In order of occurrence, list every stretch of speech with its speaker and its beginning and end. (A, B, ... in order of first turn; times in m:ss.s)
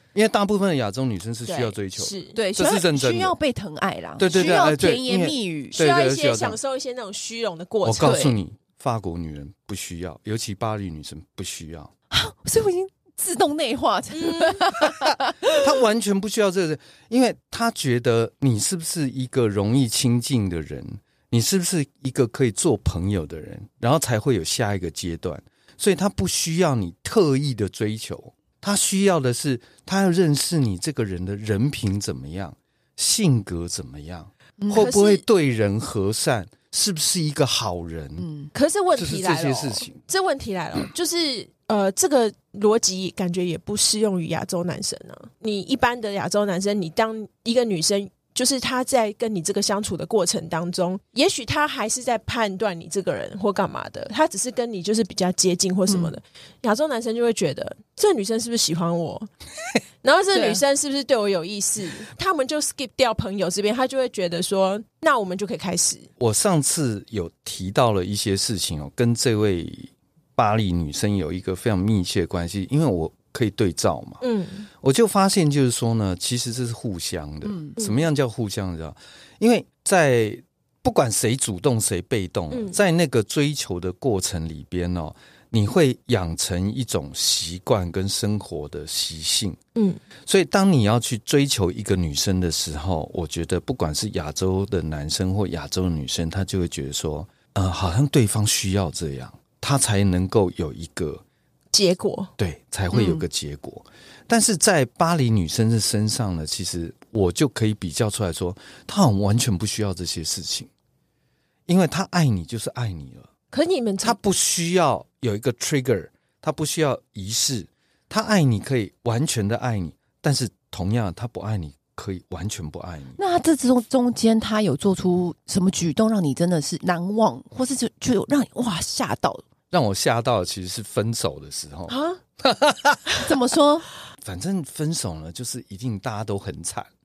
0:00.1-0:03.3 A
0:01.5-0:02.4 B
0:02.3-0:05.8 C
0:04.2-0:06.6 A
0:04.3-0:04.6 B
0:05.8-0:08.2 B
0:07.8-0:11.9 A
0:08.0-0:08.4 C
0:12.1-0:15.3 C
0:14.1-0:14.8 B
0:15.4-0:38.3 A
0:34.6-0:34.9 C
0:34.7-0:35.2 B
0:38.2-0:38.5 C
0:38.5-0:59.3 B
0:38.9-0:40.0 A
0:55.9-0:56.1 C
1:00.0-1:06.1 B
1:00.3-1:00.6 C
1:06.2-1:14.2 A
1:14.2-1:14.7 B
1:14.8-1:29.6 A
1:17.4-1:17.8 C
1:17.8-1:18.1 B
1:22.5-1:22.8 B
1:29.8-1:30.0 B
1:30.2-1:41.2 A
1:41.7-1:42.3 B
1:42.4-1:50.7 A
1:42.9-1:43.2 B
1:51.7-1:53.3 A
1:53.5-1:54.2 B
1:54.0-2:03.2 A
2:03.2-2:09.4 C
2:09.7-2:13.2 A
2:11.9-2:12.2 B
2:13.2-2:13.9 C
2:14.2-2:16.9 A